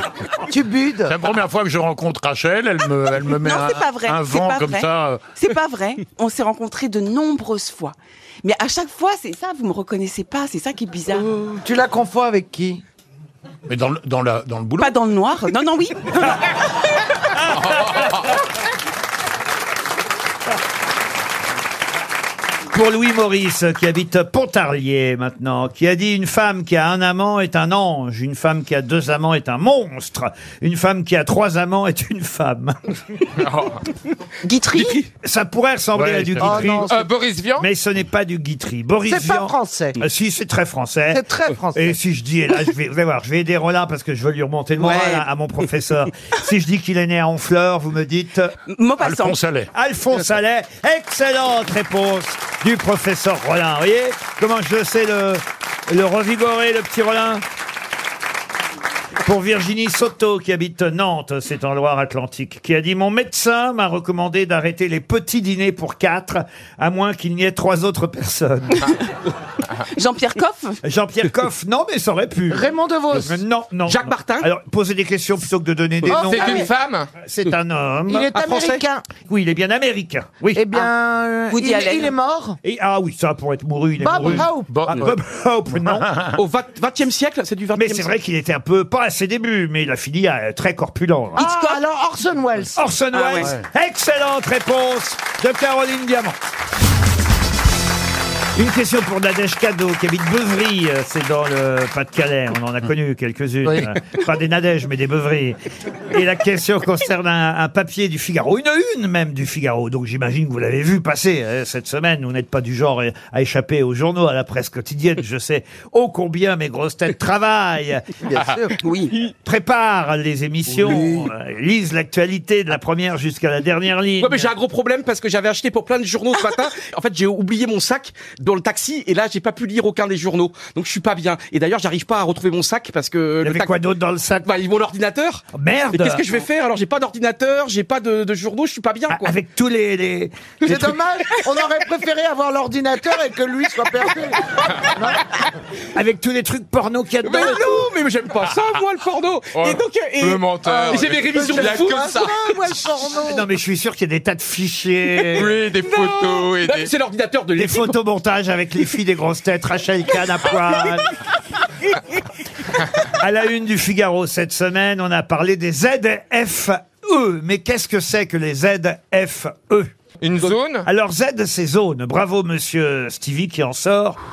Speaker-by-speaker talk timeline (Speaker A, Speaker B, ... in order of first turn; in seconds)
Speaker A: 0.5-1.1, 11.6-12.8, 36.4-37.1, 39.0-40.0, 41.1-42.0, 72.5-73.4, 76.1-76.7, 78.1-79.1, 80.5-82.6, 84.0-84.9, 91.3-92.8, 118.2-118.7, 140.6-145.2, 150.6-153.5
Speaker B: 1.1-5.2, 13.7-14.9, 36.0-36.8, 49.0-49.7, 84.2-85.2, 85.9-86.3, 103.7-103.9
Speaker C: 3.4-11.3, 14.8-16.4, 34.4-35.0, 44.8-45.2, 48.7-49.4, 69.9-70.8, 81.5-82.1, 91.3-91.8, 93.1-93.5, 118.8-119.1
Speaker D: 17.6-17.9, 22.7-33.0, 35.2-36.9, 37.6-48.5, 49.7-57.4, 59.2-68.9, 70.8-78.3, 79.2-80.6, 82.6-86.1, 87.8-91.4, 92.7-96.4, 98.5-118.1, 119.4-124.5, 133.4-134.5, 135.5-136.2, 139.1-140.8, 145.9-147.8, 153.2-155.5, 157.6-161.1, 163.1-169.9, 170.8-174.2
Speaker E: 36.9-37.7, 76.1-77.1, 149.6-152.3, 155.3-156.9, 170.2-170.9
Speaker F: 73.9-74.5, 78.3-78.8, 86.3-88.1, 124.2-133.8, 134.4-139.4, 140.6-141.4, 147.2-152.3, 155.4-157.9